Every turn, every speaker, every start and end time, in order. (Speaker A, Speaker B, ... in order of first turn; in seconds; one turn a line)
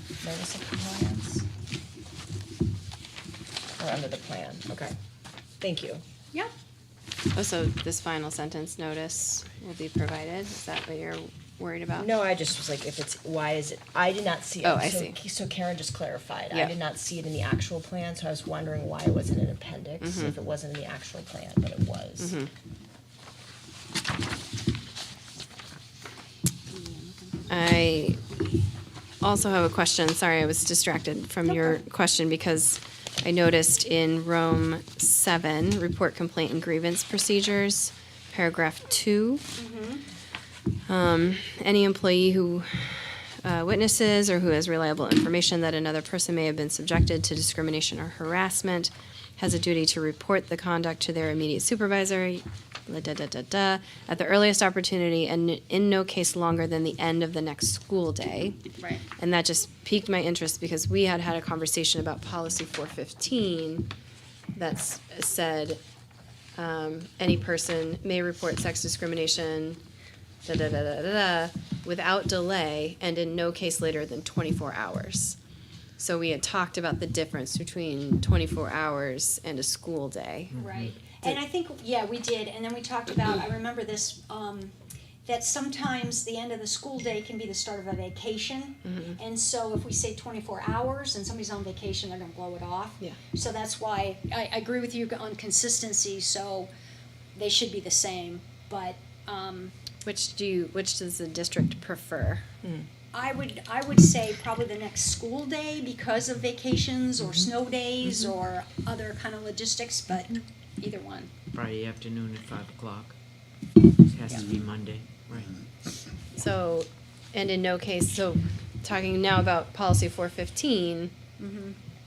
Speaker A: 0.2-1.5
Speaker A: 3.8-5.0
Speaker A: 5.6-6.0
Speaker B: 7.3-12.1
Speaker A: 12.0-22.4
Speaker B: 14.6-15.2
Speaker B: 20.0-20.4
Speaker B: 22.2-22.5
Speaker C: 26.7-27.5
Speaker B: 27.5-28.2
Speaker B: 29.2-39.4
Speaker C: 31.5-31.8
Speaker C: 39.6-40.0
Speaker B: 40.9-58.6
Speaker C: 58.8-59.0
Speaker B: 59.2-63.9
Speaker B: 64.5-65.8
Speaker B: 66.6-69.8
Speaker B: 70.5-75.4
Speaker B: 76.0-80.6
Speaker D: 80.5-81.0
Speaker C: 80.6-84.7
Speaker C: 85.2-96.7
Speaker B: 88.8-89.2
Speaker C: 97.3-99.7
Speaker B: 100.0-102.4
Speaker C: 103.1-111.3
Speaker D: 111.5-113.2
Speaker D: 114.0-115.6
Speaker B: 116.4-121.1
Speaker C: 121.4-121.8